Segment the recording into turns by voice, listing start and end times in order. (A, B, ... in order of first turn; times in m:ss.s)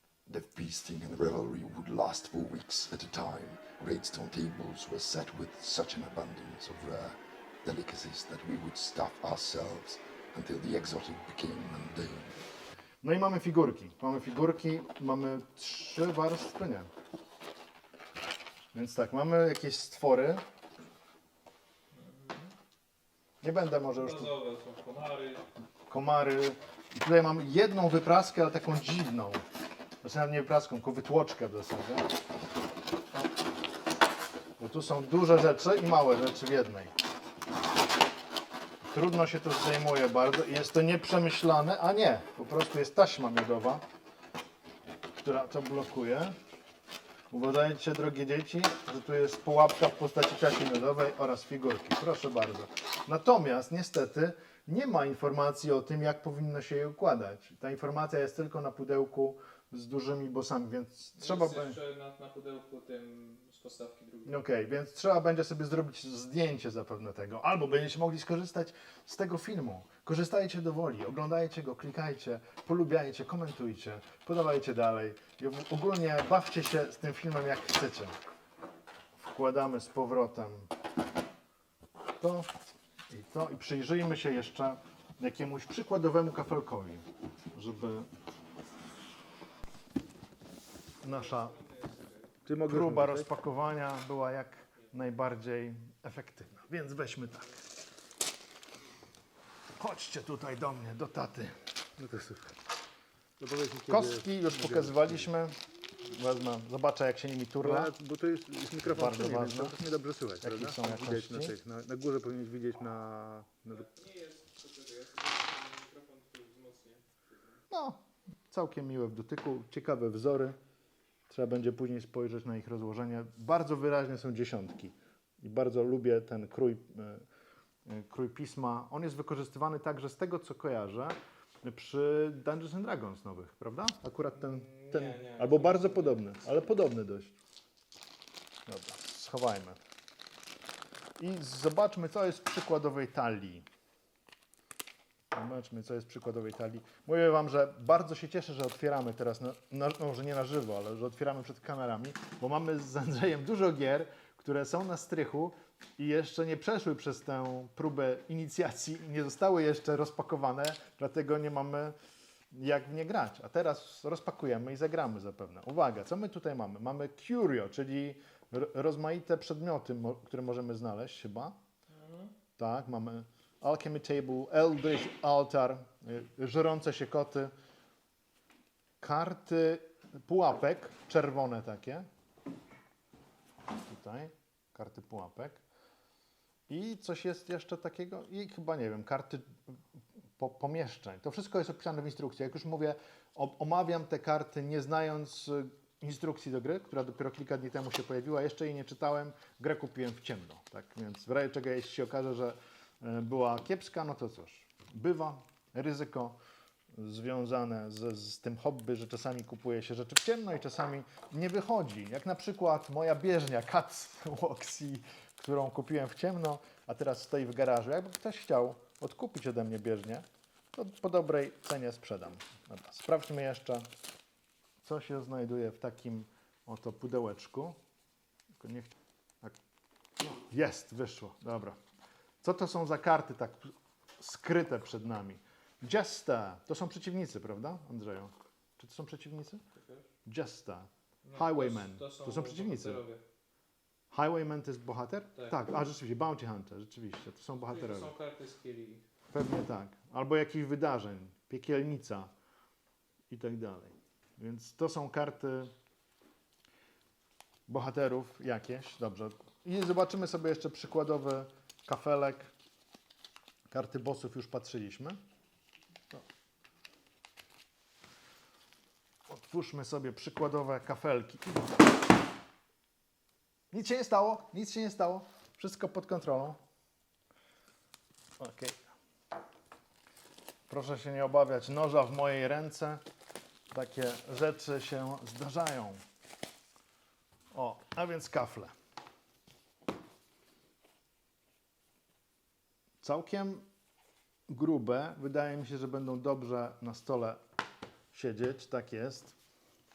0:00.3-0:03.8 A
0:00.5-0:12.3 B
0:13.0-0:16.9 A
0:18.7-0:20.4 A
0:21.9-0:22.5 C
0:23.4-0:24.3 A
0:23.8-0:25.5 C
0:25.9-0:29.4 A
0:30.0-0:32.0 A
0:34.6-0:36.9 A
0:38.8-0:43.8 A
0:45.2-0:46.3 A
0:47.3-1:01.8 A
1:01.2-1:04.4 C
1:04.2-1:18.1 A
1:19.2-1:20.7 A
1:22.2-1:22.5 A
1:23.1-1:28.1 A
1:31.0-1:31.6 A
1:31.0-1:32.4 C
1:32.4-1:33.3 D
1:32.5-1:37.6 A
1:39.8-1:41.6 A
1:42.0-1:42.5 D
1:43.4-1:45.3 D
1:43.9-1:47.9 A
1:47.6-1:53.8 D
1:48.8-1:49.8 A
1:50.4-1:51.6 A
1:53.1-1:53.6 A
1:53.7-1:57.6 C
1:57.7-1:58.0 A
1:58.5-2:00.6 A
2:01.3-2:07.2 A
2:07.9-2:17.3 A
2:14.3-2:16.8 C
2:18.7-2:19.8 A
2:21.2-2:23.6 A
2:25.3-2:41.9 A
2:42.5-2:51.6 A
2:51.9-2:52.3 C
2:52.6-2:57.5 A
2:59.0-3:02.0 A
3:03.8-3:05.6 A
3:06.7-3:09.5 A
3:10.4-3:26.4 A
3:27.0-3:43.9 A
3:44.8-3:47.8 A
3:48.6-3:48.9 A
3:50.2-3:51.8 A
3:52.4-3:59.6 A
3:59.7-4:00.0 C
4:00.2-4:03.0 A
4:01.2-4:03.2 C
4:04.1-4:08.1 A
4:05.4-4:05.7 C
4:07.7-4:09.0 C
4:09.3-4:12.3 A
4:13.3-4:15.7 A
4:17.7-4:22.5 A
4:23.7-4:25.2 A
4:29.3-4:31.8 A
4:33.7-4:36.6 A
4:38.4-4:38.8 A
4:40.7-4:43.0 A
4:43.7-4:46.0 A
4:47.5-4:48.7 A
4:53.0-4:53.6 A
4:54.5-4:57.4 A
4:58.1-4:59.3 A